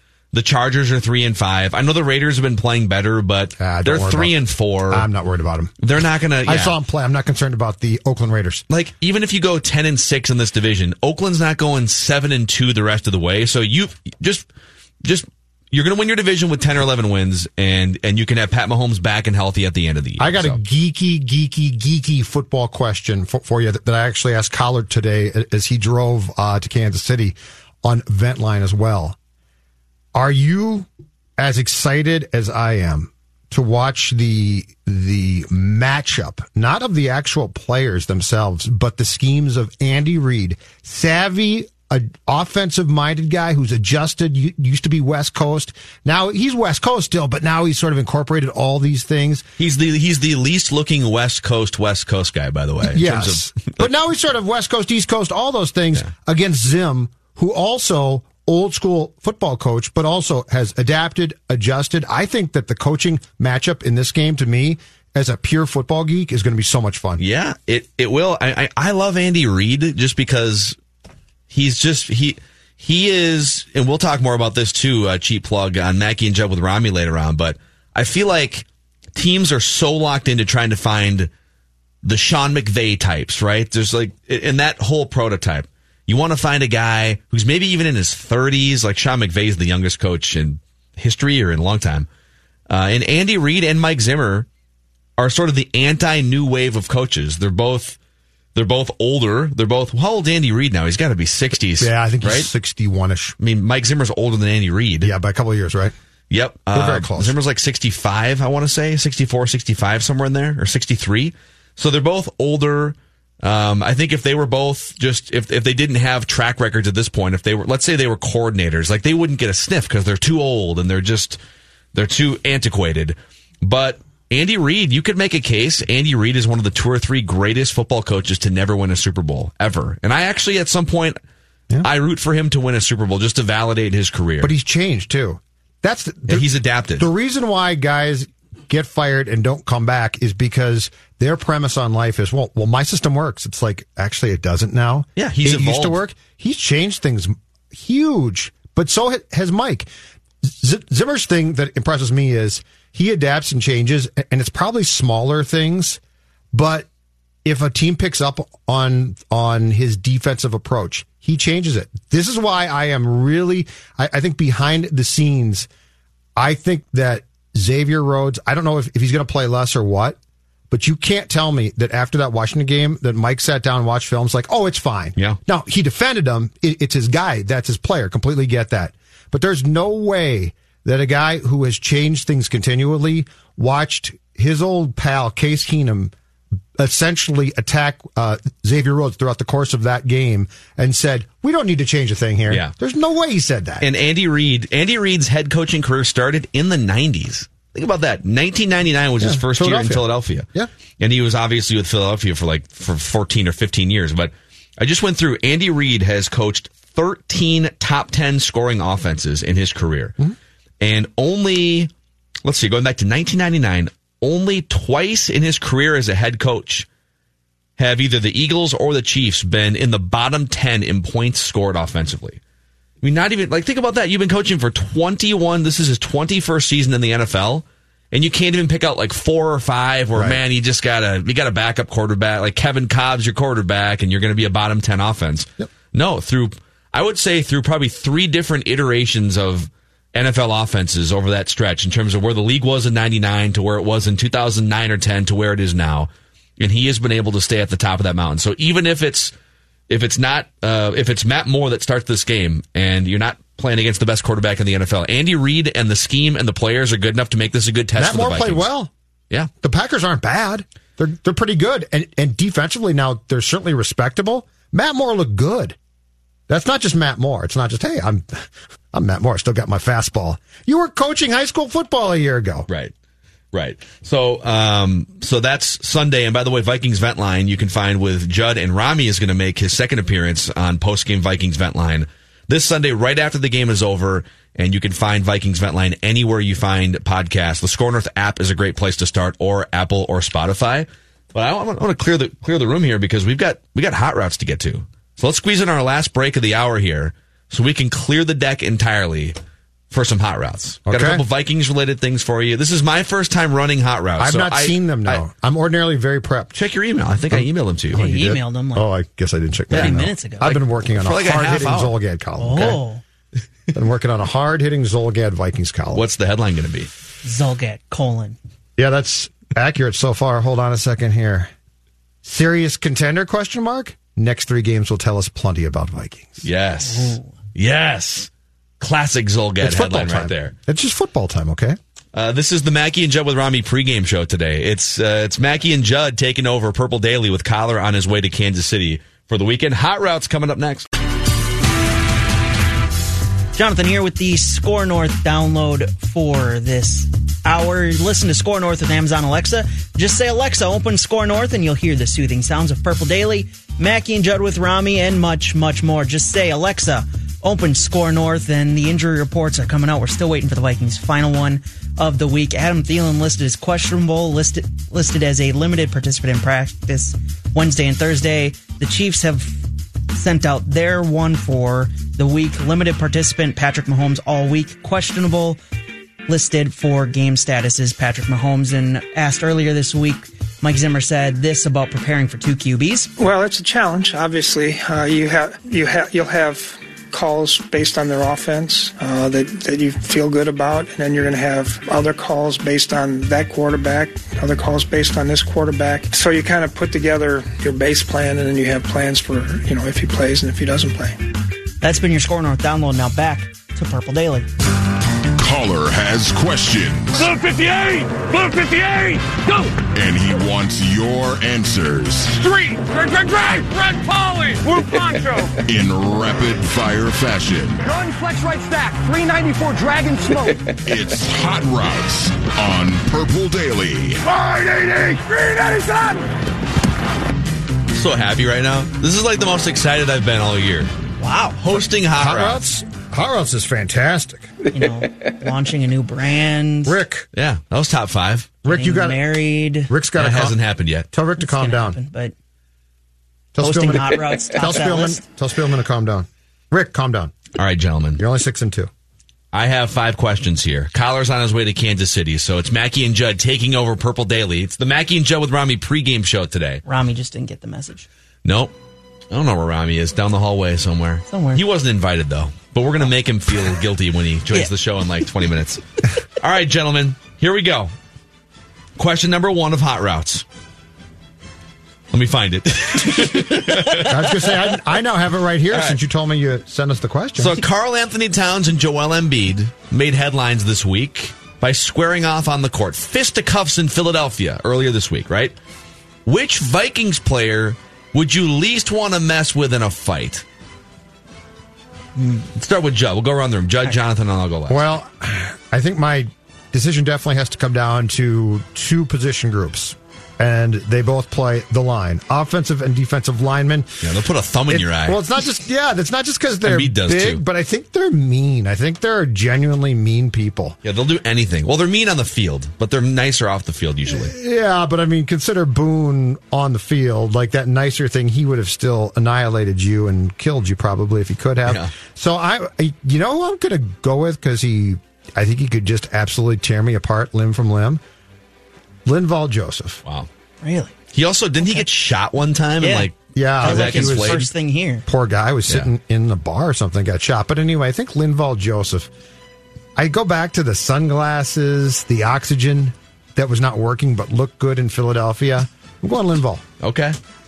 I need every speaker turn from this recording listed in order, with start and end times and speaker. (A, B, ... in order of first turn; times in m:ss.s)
0:00.3-0:05.0 A
0:03.6-0:04.4 B
0:04.9-0:05.7 B
0:05.8-0:06.7 A
0:06.4-0:08.6 B
0:08.7-0:14.4 A
0:15.0-0:20.6 A
0:20.2-0:29.2 B
0:30.1-0:30.9 B
0:31.4-0:49.4 B
0:49.6-0:53.8 A
0:52.8-1:07.2 B
1:07.2-1:10.8 A
1:11.5-1:21.3 A
1:22.0-1:32.1 A
1:32.7-1:34.4 A
1:35.2-1:38.0 A
1:38.5-1:42.5 A
1:41.8-1:43.3 B
1:43.4-1:45.1 A
1:45.0-1:45.9 B
1:46.3-2:01.4 A
1:46.7-1:47.4 B
2:01.9-2:11.2 A
2:11.8-2:14.5 A
2:14.4-2:16.5 B
2:16.3-2:17.1 A
2:17.0-2:29.9 B
2:25.2-2:26.0 A
2:30.6-2:36.0 B
2:36.5-2:36.8 B
2:37.4-2:45.7 B
2:46.4-2:50.2 B
2:50.7-3:06.1 B
3:06.8-3:13.9 B
3:13.8-3:20.5 A
3:19.2-3:20.7 B
3:21.0-3:30.1 A
3:30.8-3:31.9 A
3:32.4-3:36.8 A
3:37.8-3:42.4 A
3:43.0-4:09.3 A
4:09.9-4:18.7 A
4:18.0-4:18.9 B
4:19.6-4:25.8 B
4:26.5-4:32.7 B
4:33.5-4:59.4 A
4:59.9-5:05.2 A
5:00.8-5:01.2 B
5:04.2-5:06.6 B
5:06.6-5:08.1 A
5:07.9-5:08.9 C
5:08.0-5:12.8 B
5:09.7-5:10.6 C
5:10.4-5:11.9 A
5:12.4-5:13.0 C
5:13.7-5:16.0 B
5:15.9-5:16.9 A
5:17.2-5:18.4 C
5:18.8-5:21.5 B
5:22.2-5:26.4 B
5:26.4-5:30.5 A
5:26.9-5:27.3 C
5:29.6-5:31.8 B
5:32.1-5:40.9 A
5:43.5-6:09.6 C
6:10.1-6:15.6 C
6:16.3-6:23.1 C
6:23.2-6:41.2 D
6:41.8-6:44.5 C
6:45.4-6:47.2 E
6:47.1-6:49.8 F
6:49.9-6:52.4 E
6:52.4-6:55.6 F
6:55.7-6:57.8 E
6:57.8-7:00.6 F
7:00.8-7:04.2 E
7:04.3-7:06.2 F
7:07.9-7:10.9 A
7:11.2-7:11.6 C
7:11.6-7:12.8 A
7:12.2-7:14.5 B
7:14.7-7:17.0 C
7:16.8-7:17.3 B
7:17.3-7:18.6 A
7:18.6-7:19.3 B
7:18.6-7:19.9 C
7:19.9-7:20.6 B
7:20.2-7:21.1 A
7:21.1-7:22.0 B
7:21.4-7:22.3 C
7:23.6-7:27.3 B
7:23.6-7:25.2 C
7:27.5-7:28.2 A
7:28.2-7:28.9 B
7:29.5-7:36.8 A
7:36.8-7:38.1 C
7:38.4-7:38.7 A
7:39.3-7:45.8 A
7:41.3-7:41.6 C
7:46.4-7:47.9 A
7:49.0-7:50.4 A
7:52.1-7:54.5 A
7:54.0-7:57.6 B
7:55.7-7:56.0 A
7:57.4-8:05.5 A
8:06.2-8:10.4 A
8:12.2-8:12.4 C
8:12.6-8:14.9 A
8:14.7-8:24.1 B
8:24.0-8:25.2 A
8:24.7-8:30.8 B
8:26.6-8:27.4 A
8:30.8-8:34.3 A
8:34.1-8:48.0 B
8:41.6-8:41.9 A
8:49.0-8:50.0 B
8:50.6-8:50.9 C
8:51.1-8:54.5 A
8:51.6-8:51.9 C
8:52.8-8:55.0 C
8:53.3-8:54.5 B
8:55.1-8:59.1 B
9:00.0-9:06.6 B
9:06.8-9:07.2 A